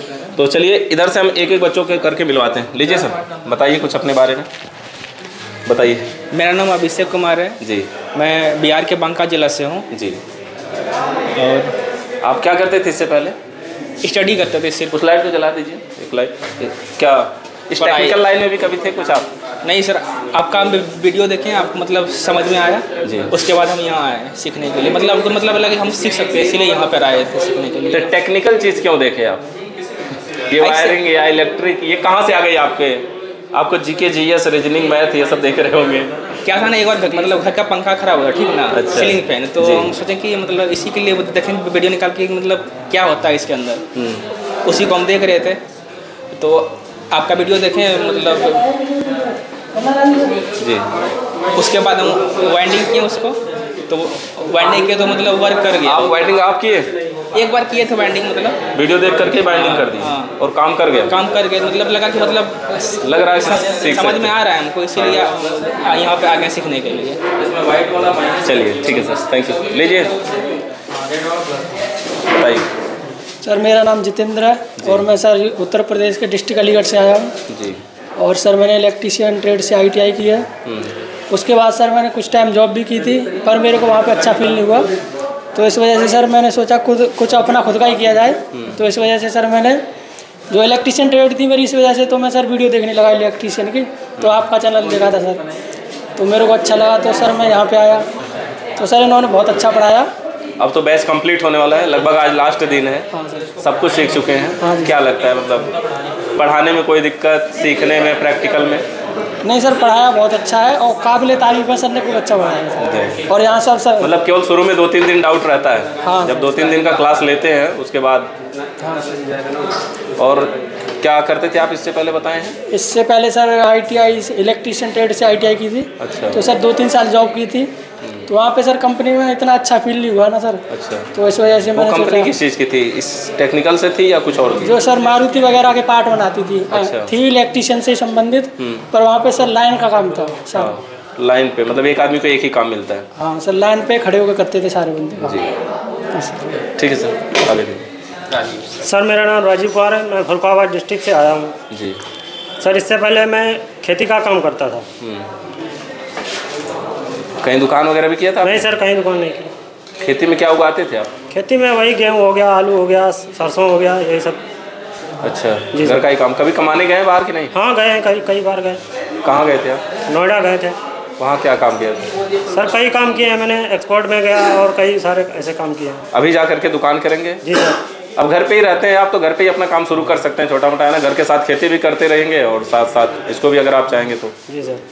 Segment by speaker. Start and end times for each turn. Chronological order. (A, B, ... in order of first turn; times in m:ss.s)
0:00.4-0:04.5 A
0:05.7-0:06.1 A
0:06.3-0:07.6 B
0:07.6-0:07.9 A
0:08.1-0:09.9 B
0:09.9-0:10.2 A
0:11.4-0:11.8 B
0:12.2-0:13.4 A
0:14.0-0:15.0 B
0:14.9-0:19.3 A
0:17.8-0:18.2 B
0:19.6-0:28.1 B
0:23.0-0:23.3 A
0:27.9-0:29.4 A
0:30.5-0:36.1 A
0:30.6-0:31.0 B
0:36.4-0:43.8 B
0:38.7-0:39.9 A
0:44.0-0:44.2 A
0:44.7-0:45.6 B
0:46.4-0:48.7 B
0:49.8-0:50.4 C
0:50.6-0:50.9 A
0:51.6-0:56.1 B
0:55.8-0:56.9 A
0:57.3-0:58.6 B
0:58.7-1:01.1 A
1:00.0-1:00.3 B
1:01.1-1:07.2 B
1:03.0-1:04.3 A
1:07.4-1:10.1 A
1:12.3-1:12.7 A
1:13.4-1:17.3 C
1:14.8-1:15.0 A
1:17.5-1:17.8 A
1:18.2-1:20.5 C
1:20.7-1:20.9 A
1:21.3-1:24.9 C
1:25.5-1:29.8 C
1:30.5-1:35.4 C
1:36.2-1:38.0 C
1:38.8-1:40.1 C
1:40.6-1:43.1 A
1:43.6-1:45.7 A
1:44.6-1:44.9 C
1:46.4-1:48.9 A
1:49.4-1:54.2 C
1:52.8-1:53.2 A
1:54.0-1:58.3 A
1:56.0-1:56.4 C
1:58.8-1:59.1 C
2:00.2-2:02.6 A
2:02.7-2:07.7 C
2:06.0-2:06.4 A
2:08.3-2:12.3 C
2:10.7-2:11.1 A
2:11.8-2:14.7 A
2:14.6-2:20.7 C
2:16.7-2:17.1 A
2:18.6-2:18.8 A
2:20.6-2:23.1 A
2:23.2-2:25.4 C
2:25.2-2:25.5 A
2:26.8-2:27.8 A
2:28.8-2:31.6 D
2:31.7-2:32.0 A
2:32.6-2:34.8 D
2:35.0-2:35.3 A
2:37.4-2:38.6 A
2:38.4-2:39.5 D
2:40.0-2:41.1 A
2:41.3-2:44.4 D
2:45.2-2:47.5 A
2:45.7-2:46.1 D
2:47.5-2:48.8 D
2:49.2-2:49.8 A
2:50.1-2:50.8 D
2:51.2-2:52.1 A
2:52.5-2:56.0 D
2:56.1-2:57.4 A
2:57.4-2:57.8 D
2:58.2-3:04.3 A
3:04.5-3:04.8 D